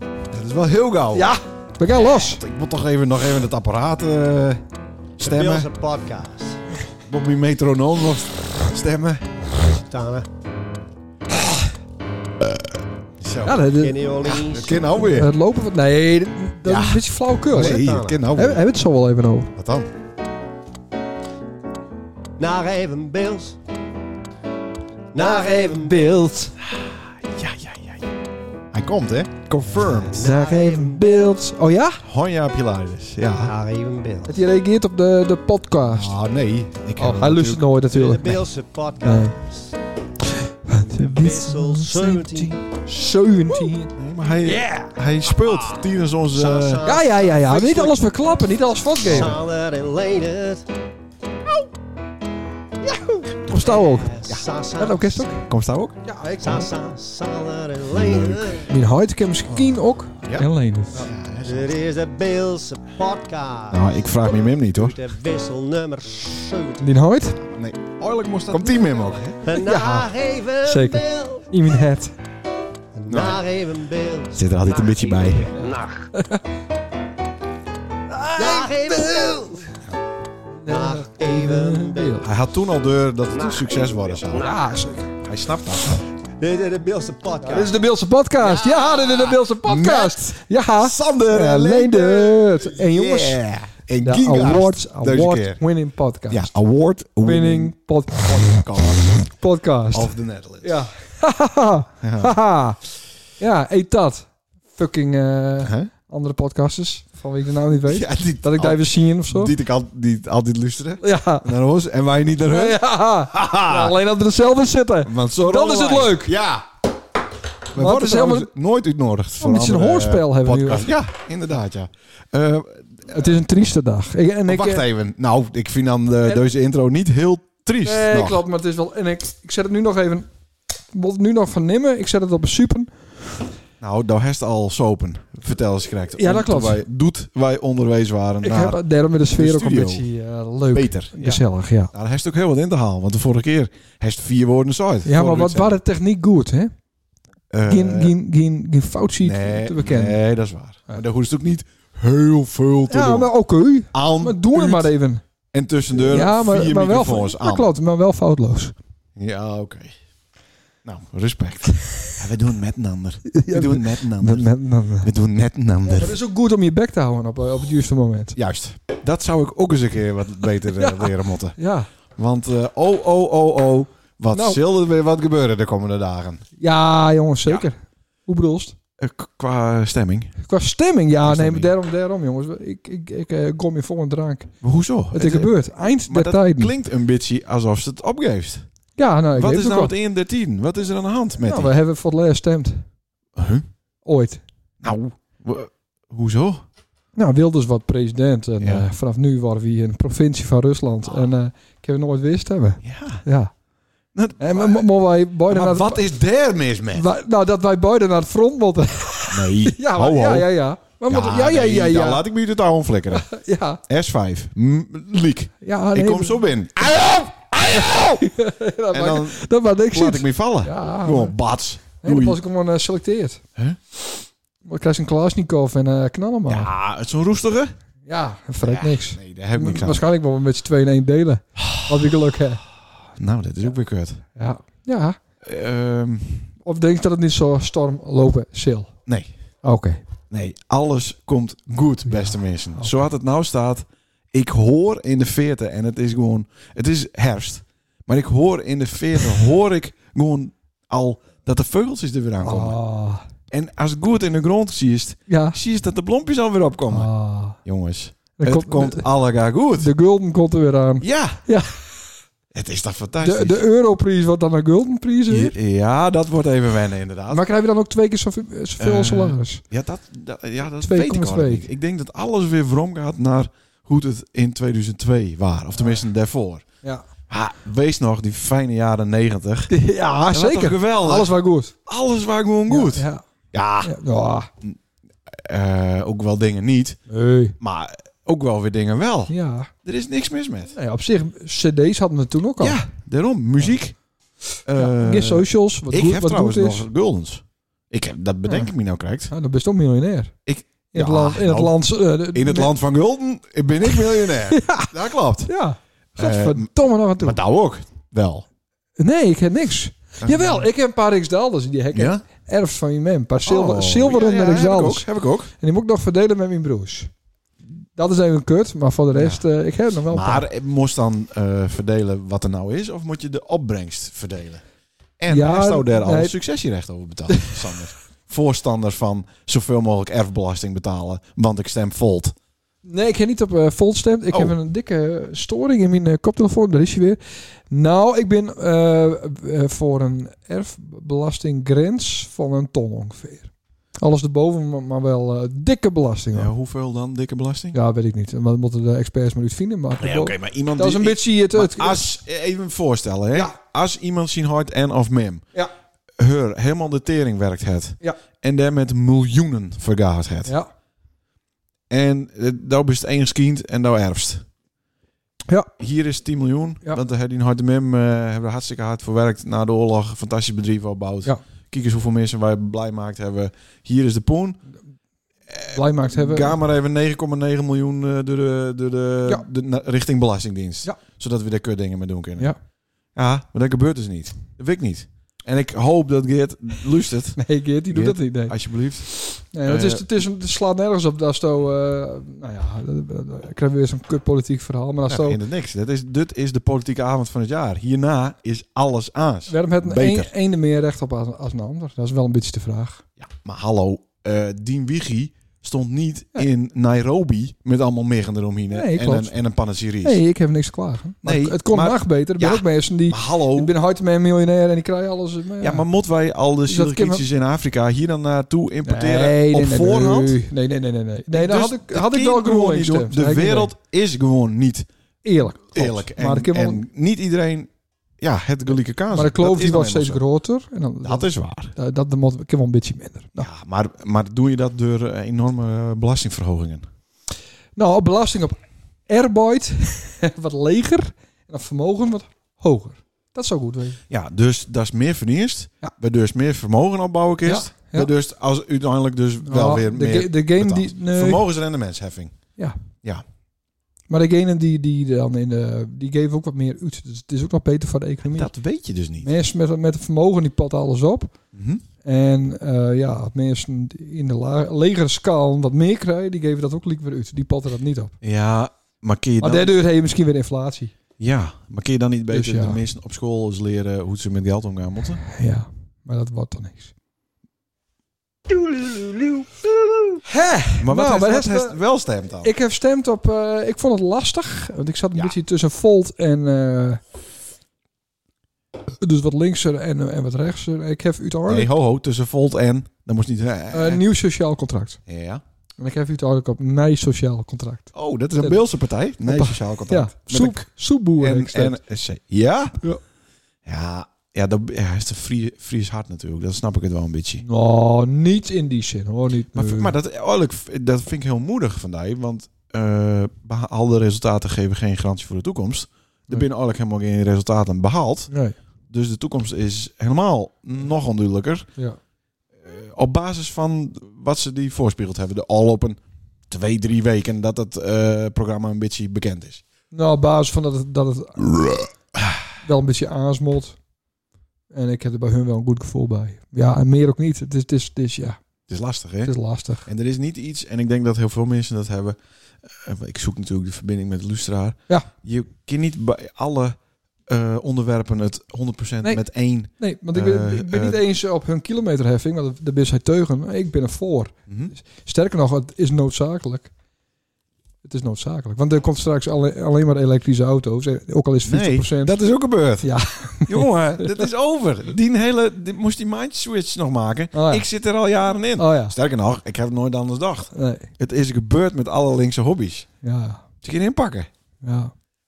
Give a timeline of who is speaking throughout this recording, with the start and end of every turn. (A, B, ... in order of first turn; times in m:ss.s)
0:00.3-0:01.3 A
0:01.2-0:02.4 B
0:02.1-0:04.6 A
0:05.2-0:05.7 A
0:05.2-0:06.6 C
0:07.1-0:09.3 A
0:09.8-0:10.3 C
0:12.4-0:13.6 A
0:13.4-0:14.1 B
0:13.8-0:15.0 C
0:14.2-0:15.3 A
0:15.0-0:19.5 B
0:16.6-0:18.6 A
0:17.5-0:18.3 C
0:19.6-0:19.9 A
0:22.4-0:23.6 C
0:25.1-0:26.2 C
0:25.2-0:26.5 B
0:27.3-0:28.0 A
0:28.7-0:30.2 A
0:29.7-0:31.4 C
0:30.1-0:32.0 B
0:32.0-0:33.5 A
0:33.4-0:34.5 C
0:34.3-0:36.2 B
0:35.9-0:37.6 A
0:37.0-0:38.4 B
0:37.9-0:39.8 C
0:39.0-0:39.4 B
0:40.7-0:43.9 B
0:40.8-0:42.6 C
0:44.0-0:46.8 A
0:44.4-0:47.9 C
0:46.8-0:49.4 B
0:49.0-0:50.6 C
0:49.1-0:49.3 A
0:53.5-0:54.2 B
0:53.5-0:55.4 C
0:54.8-0:55.4 B
0:55.4-0:56.0 A
0:56.0-0:56.7 B
0:56.4-0:58.7 C
0:58.7-1:01.1 B
1:00.2-1:01.7 A
1:01.0-1:06.9 C
1:03.7-1:05.0 A
1:06.8-1:07.4 B
1:07.5-1:09.4 A
1:09.4-1:11.4 C
1:09.5-1:10.1 B
1:10.6-1:12.1 B
1:13.0-1:16.1 C
1:13.1-1:13.4 A
1:14.4-1:15.6 A
1:16.2-1:16.4 B
1:18.1-1:19.6 B
1:18.3-1:19.6 C
1:20.6-1:22.3 B
1:20.7-1:22.2 C
1:22.2-1:24.6 A
1:23.3-1:24.8 C
1:24.3-1:25.1 B
1:25.2-1:26.0 A
1:26.4-1:27.8 C
1:27.4-1:33.4 B
1:28.4-1:29.4 C
1:29.6-1:30.2 A
1:30.8-1:35.6 A
1:34.0-1:36.5 B
1:36.3-1:39.3 A
1:37.2-1:38.6 B
1:39.3-1:42.8 B
1:39.9-1:40.8 A
1:42.0-1:42.4 A
1:43.4-1:49.5 B
1:45.6-1:45.9 A
1:47.9-1:52.8 A
1:51.0-1:51.5 B
1:52.5-1:56.3 B
1:53.3-1:54.0 A
1:55.0-1:56.7 A
1:57.7-2:03.0 A
1:57.8-1:58.5 B
1:59.4-2:00.9 B
2:03.1-2:04.8 B
2:04.5-2:08.4 A
2:07.8-2:10.3 B
2:10.9-2:13.1 B
2:13.8-2:20.0 A
2:16.2-2:16.8 B
2:18.4-2:21.9 B
2:20.7-2:25.8 A
2:25.0-2:26.7 B
2:27.5-2:28.1 A
2:27.7-2:30.2 B
2:29.2-2:33.3 A
2:32.9-2:35.2 B
2:33.9-2:34.9 A
2:35.5-2:37.7 A
2:36.0-2:38.7 B
2:39.2-2:40.0 A
2:40.8-2:44.5 A
2:43.4-2:45.1 B
2:45.0-2:46.2 A
2:45.9-2:48.4 B
2:48.4-2:51.6 A
2:50.8-2:51.9 B
2:52.2-2:56.4 A
2:54.3-2:54.6 B
2:56.6-2:58.8 B
2:59.0-3:00.4 A
3:00.4-3:04.5 B
3:01.2-3:01.7 A
3:04.6-3:08.6 A
3:05.1-3:06.7 B
3:09.0-3:09.9 B
3:09.4-3:11.7 A
3:11.4-3:12.9 B
3:13.4-3:13.7 A
3:14.0-3:14.4 B
3:14.8-3:16.6 A
3:17.2-3:23.5 B
3:18.6-3:18.9 A
3:22.8-3:23.2 A
3:24.2-3:24.9 A
3:24.4-3:26.0 B
3:25.5-3:27.0 A
3:26.9-3:32.2 B
3:29.3-3:30.5 A
3:31.1-3:33.3 A
3:33.1-3:33.8 B
3:33.9-3:38.2 A
3:35.6-3:36.4 B
3:37.9-3:41.4 B
3:38.9-3:42.4 A
3:42.0-3:43.4 B
3:44.6-3:46.7 B
3:46.5-3:47.8 A
3:48.0-3:52.6 B
3:48.6-3:50.0 A
3:51.6-3:52.0 A
3:53.2-3:54.2 A
3:54.4-3:55.2 B
3:55.4-3:56.5 A
3:56.6-3:58.9 B
3:59.1-3:59.3 A
3:59.6-4:00.0 B
4:00.3-4:12.8 A
4:02.1-4:03.0 B
4:12.4-4:13.2 B
4:13.5-4:17.1 A
4:15.3-4:15.6 B
4:16.9-4:17.6 B
4:17.6-4:19.9 A
4:18.4-4:19.1 B
4:19.8-4:21.8 B
4:21.0-4:21.4 A
4:22.5-4:23.6 A
4:23.2-4:25.5 B
4:25.3-4:27.4 A
4:27.3-4:29.6 B
4:28.8-4:36.7 A
4:30.8-4:31.7 B
4:37.3-4:39.7 A
4:39.7-4:41.8 B
4:40.3-4:43.9 A
4:42.7-4:43.2 B
4:43.8-4:44.5 B
4:45.3-4:47.0 A
4:47.1-4:47.6 B
4:47.6-4:50.7 A
4:49.3-4:49.7 B
4:50.7-4:52.8 B
4:52.6-4:54.0 A
4:54.6-4:59.3 A
4:54.8-4:56.8 B
4:59.3-5:00.3 B
5:00.5-5:01.8 A
5:00.9-5:02.7 B
5:02.3-5:05.5 A
5:04.6-5:04.8 B
5:05.5-5:07.4 B
5:06.2-5:08.5 A
5:09.0-5:15.1 B
5:10.2-5:10.7 A
5:11.9-5:12.2 A
5:13.4-5:15.5 A
5:15.6-5:17.1 B
5:18.0-5:20.5 B
5:19.2-5:19.4 A
5:20.1-5:24.6 A
5:25.2-5:32.3 A
5:25.3-5:26.3 B
5:32.8-5:46.5 B
5:46.3-5:47.8 A
5:47.7-5:52.1 B
5:50.0-5:55.4 A
5:56.2-6:00.5 A
6:01.9-6:04.4 A
6:05.8-6:14.6 A
6:15.5-6:22.5 A
6:15.7-6:16.6 B
6:23.2-6:30.1 A
6:27.4-6:28.5 B
6:29.5-6:35.4 B
6:35.1-6:40.3 A
6:39.5-6:43.0 B
6:43.2-6:50.2 A
6:48.7-6:49.3 B
6:50.0-6:55.9 B
6:51.2-6:53.7 A
6:55.6-7:00.4 A
6:56.7-6:57.2 B
6:58.8-7:03.7 B
7:01.3-7:04.9 A
7:05.2-7:06.8 B
7:05.7-7:07.7 A
7:08.2-7:10.2 A
7:09.1-7:13.5 B
7:11.0-7:11.8 A
7:13.4-7:16.9 A
7:17.8-7:24.0 B
7:24.1-7:32.4 A
7:27.5-7:28.1 B
7:29.4-7:31.4 B
7:34.1-7:38.5 B
7:38.3-7:39.3 A
7:39.2-7:41.4 B
7:41.5-7:41.8 A
7:42.0-7:48.2 B
7:48.2-7:49.7 A
7:49.4-7:50.9 B
7:51.2-7:55.2 A
7:52.3-7:52.8 B
7:55.3-7:56.9 B
8:00.2-8:01.8 B
8:00.8-8:02.5 A
8:02.4-8:07.0 B
8:09.0-8:11.7 B
8:11.5-8:14.0 A
8:13.7-8:15.0 B
8:15.1-8:15.4 A
8:15.8-8:18.6 B
8:17.9-8:20.7 A
8:19.3-8:21.8 B
8:21.2-8:22.8 A
8:23.7-8:27.4 A
8:27.4-8:29.9 B
8:29.6-8:38.3 A
8:38.9-8:41.7 A
8:42.6-8:49.6 A
8:49.9-8:51.5 B
8:51.6-8:51.8 A
8:52.6-8:53.8 B
8:54.7-8:58.4 B
8:58.7-8:59.3 A
8:59.2-8:59.9 B
8:59.8-9:11.0 A
9:09.8-9:16.7 B
9:14.5-9:14.7 A
9:17.8-9:22.2 B
9:21.5-9:22.9 A
9:22.8-9:24.1 B
9:23.4-9:32.9 A
9:27.3-9:27.6 B
9:28.6-9:29.0 B
9:30.5-9:30.9 B
9:33.0-9:33.4 B
9:33.6-9:34.3 A
9:34.6-9:34.9 B